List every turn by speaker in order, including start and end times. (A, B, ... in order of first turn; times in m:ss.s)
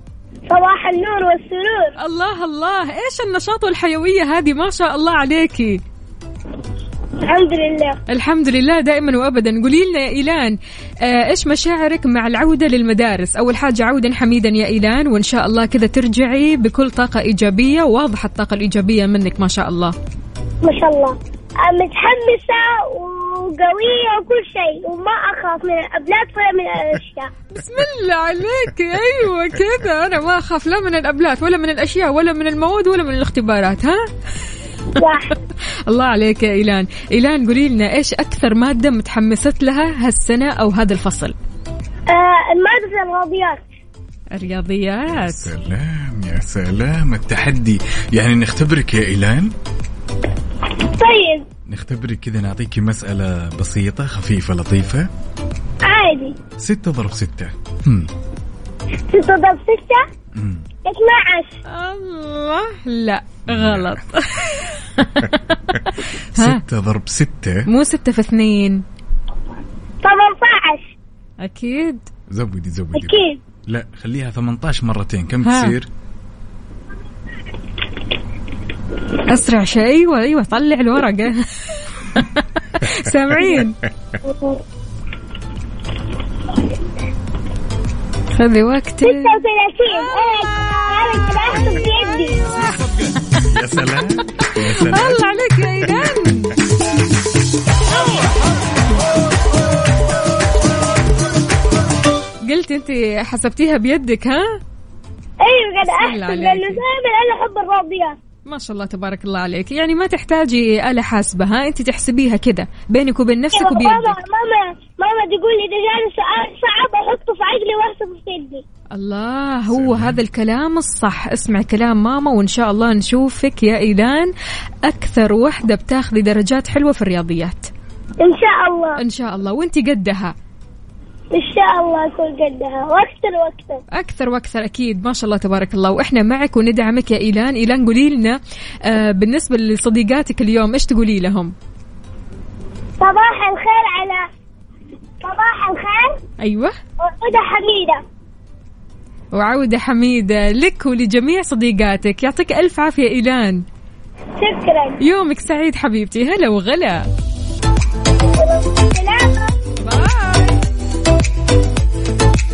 0:00.5-0:01.9 A
0:02.0-0:05.8 B
0:07.2-0:08.0 A
0:08.1-0:19.9 B
0:20.6-0:27.3 A
0:27.5-0:34.0 B
0:35.0-0:35.3 A
0:35.9-0:41.3 B
0:42.1-0:43.6 A
0:44.3-0:45.5 B
0:45.1-0:49.5 C
0:50.8-0:51.4 A
0:51.7-0:55.1 C
0:55.8-0:56.4 A
0:56.6-0:58.1 C
0:59.1-1:00.0 A
1:00.3-1:00.6 C
1:00.8-1:01.6 A
1:01.7-1:05.8 B
1:03.5-1:04.0 C
1:06.3-1:06.6 B
1:06.4-1:07.6 C
1:07.7-1:08.8 B
1:10.0-1:10.9 A
1:11.4-1:12.0 B
1:12.3-1:15.9 C
1:12.9-1:13.4 A
1:15.4-1:15.7 B
1:19.2-1:21.4 B
1:22.1-1:23.8 B
1:24.2-1:24.6 A
1:28.4-1:29.4 B
1:29.0-1:32.4 A
1:33.5-1:36.3 C
1:34.4-1:36.5 B
1:42.4-1:44.6 B
1:45.4-1:48.2 A
1:45.9-1:46.8 B
1:48.5-1:54.2 B
1:53.5-1:58.6 A
1:58.9-2:04.3 B
1:59.7-2:00.2 C
2:04.8-2:07.7 B
2:08.2-2:09.0 A
2:09.0-2:10.3 B
2:11.3-2:13.8 A
2:13.9-2:21.5 B
2:23.0-2:24.3 A
2:25.2-2:26.2 A
2:26.4-2:26.7 B
2:27.0-2:28.0 A
2:29.3-2:33.6 B
2:34.4-2:35.0 A
2:35.0-2:37.1 B
2:38.4-2:39.5 A
2:39.8-2:40.6 B